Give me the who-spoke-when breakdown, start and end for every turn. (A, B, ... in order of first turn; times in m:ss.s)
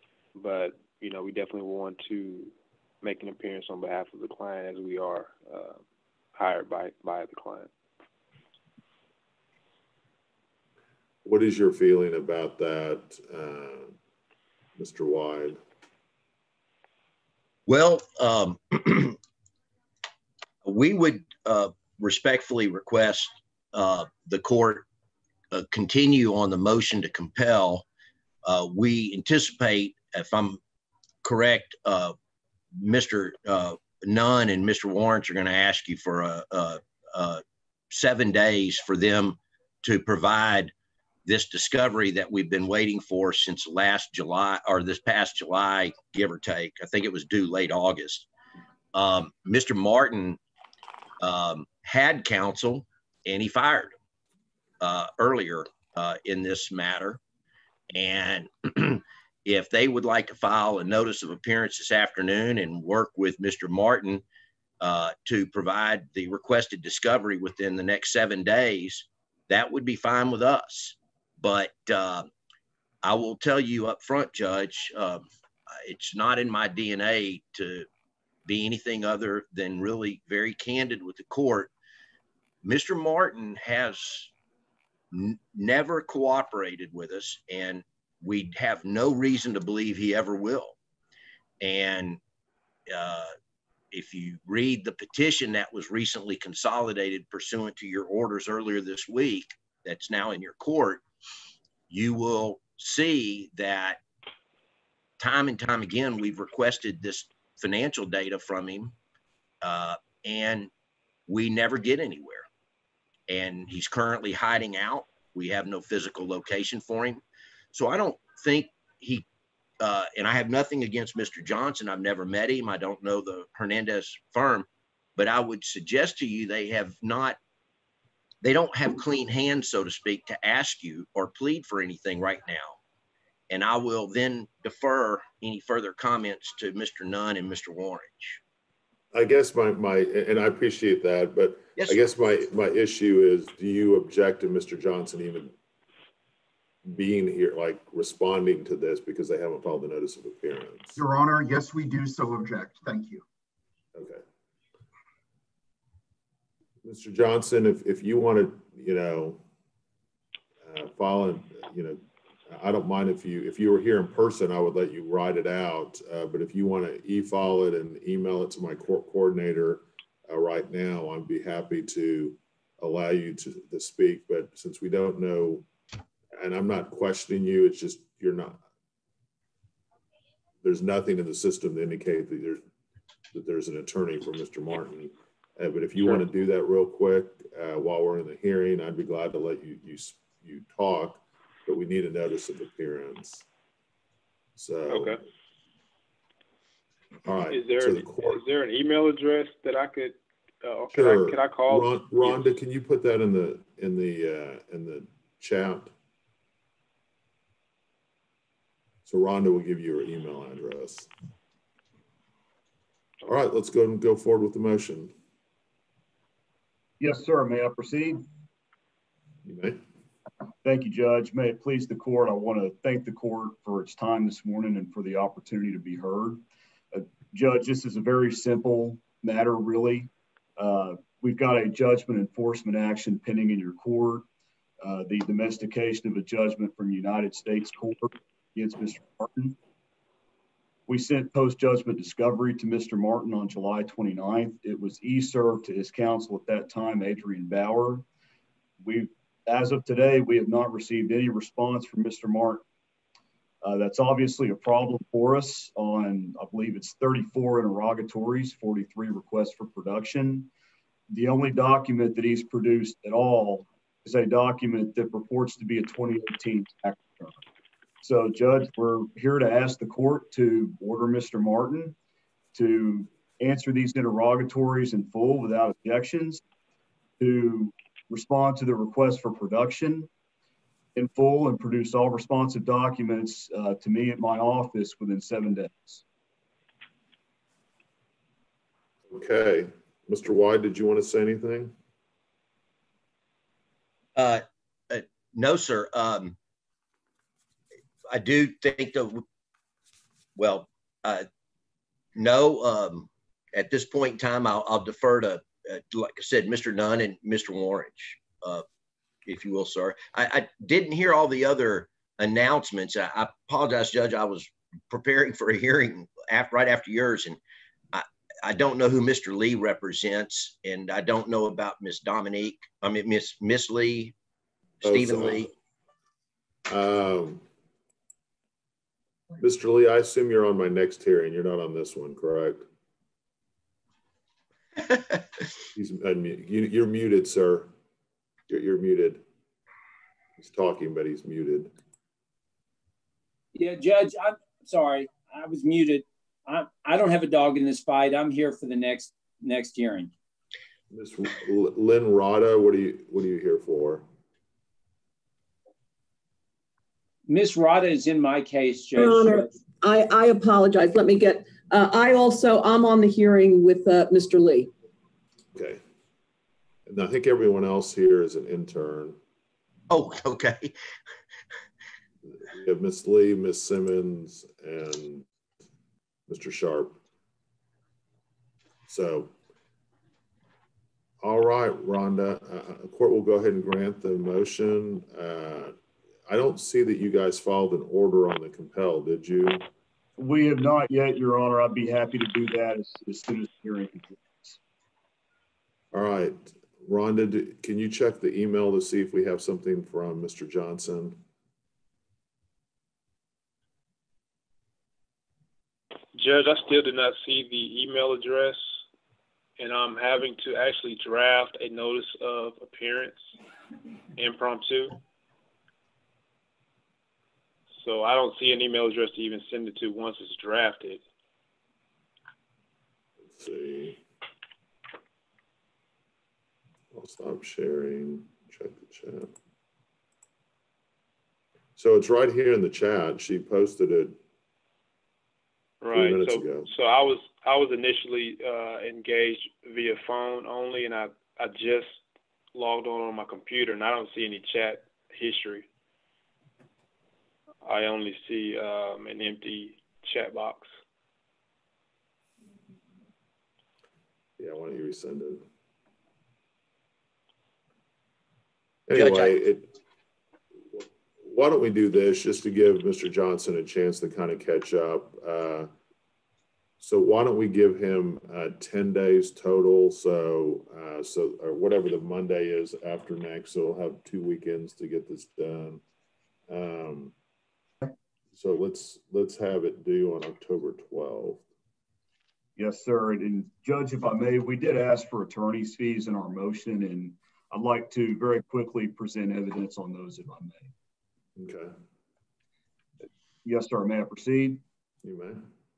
0:00.4-0:05.8 A
0:06.4-0:07.7 A
0:11.2-0:14.0 B
0:14.8-0:15.6 B
0:17.7-0:19.2 C
0:20.6-0:24.9 C
0:25.5-0:27.8 C
0:28.4-0:30.6 C
0:31.2-0:32.2 C
0:32.8-0:40.7 C
0:41.3-0:48.3 C
0:48.9-0:50.4 C
0:51.2-0:53.9 C
0:54.8-0:57.2 C
0:57.9-1:04.2 C
1:04.8-1:12.3 C
1:13.0-1:17.9 C
1:18.5-1:21.7 C
1:22.6-1:24.3 C
1:25.1-1:30.8 C
1:31.6-1:32.2 C
1:32.9-1:33.3 C
1:33.9-1:41.0 C
1:41.9-1:44.0 C
1:45.2-1:49.0 C
1:49.6-1:50.7 C
1:51.3-1:52.5 C
1:53.3-1:57.2 C
1:57.7-1:59.2 C
1:59.8-2:07.4 C
2:08.4-2:12.8 C
2:13.5-2:18.4 C
2:19.1-2:25.6 B
2:26.9-2:31.0 B
2:31.0-2:33.2 D
2:34.0-2:34.2 B
2:36.8-2:39.4 B
2:40.7-2:55.7 B
2:56.4-2:58.6 B
3:00.6-3:02.6 B
3:03.3-3:13.5 B
3:14.6-3:15.2 B
3:14.9-3:15.2 A
3:17.2-3:18.4 B
3:17.5-3:22.5 A
3:20.9-3:25.9 B
3:29.1-3:31.1 B
3:33.3-3:35.1 B
3:37.0-3:38.2 E
3:39.4-3:39.8 B
3:40.6-3:54.3 E
3:54.8-3:59.6 E
4:00.9-4:08.0 E
4:08.8-4:12.6 E
4:13.6-4:20.5 E
4:21.1-4:27.4 E
4:28.0-4:32.0 E
4:32.5-4:36.4 E
4:37.2-4:40.1 E
4:41.0-4:46.0 E
4:49.1-4:51.8 B
4:54.2-4:56.4 C
4:58.1-4:59.2 C
5:00.4-5:01.3 C
5:02.2-5:08.6 C
5:09.3-5:17.4 C
5:17.9-5:24.1 C
5:24.8-5:25.5 C
5:24.8-5:25.5 B
5:26.7-5:27.5 B
5:29.4-5:32.7 B
5:35.8-5:37.7 B
5:38.5-5:39.2 B
5:40.4-5:41.7 B
5:43.6-5:50.1 F
5:50.9-5:54.0 B
5:57.3-5:59.5 F
5:59.0-6:04.7 G
6:05.6-6:05.8 B
6:06.9-6:09.2 B
6:09.9-6:10.7 C
6:12.4-6:15.3 B
6:16.3-6:17.0 B
6:18.9-6:19.3 B
6:21.2-6:25.8 B
6:26.3-6:29.7 B
6:30.2-6:34.6 E
6:35.9-6:41.2 B
6:46.1-6:48.6 A
6:49.6-6:53.2 A
6:54.2-6:55.0 A
6:57.8-7:01.0 A
7:03.3-7:04.0 B
7:06.9-7:09.3 B
7:11.8-7:14.2 B
7:15.8-7:22.0 A
7:15.9-7:16.7 B
7:22.5-7:25.7 A
7:27.6-7:30.7 A
7:34.4-7:35.4 B
7:38.9-7:39.7 B
7:38.9-7:39.4 C
7:40.7-7:45.7 B
7:46.8-7:55.8 B
7:56.5-7:57.1 B
7:58.4-8:01.4 B
8:02.6-8:10.7 E
8:11.4-8:11.8 B
8:13.4-8:14.6 E
8:15.0-8:15.5 B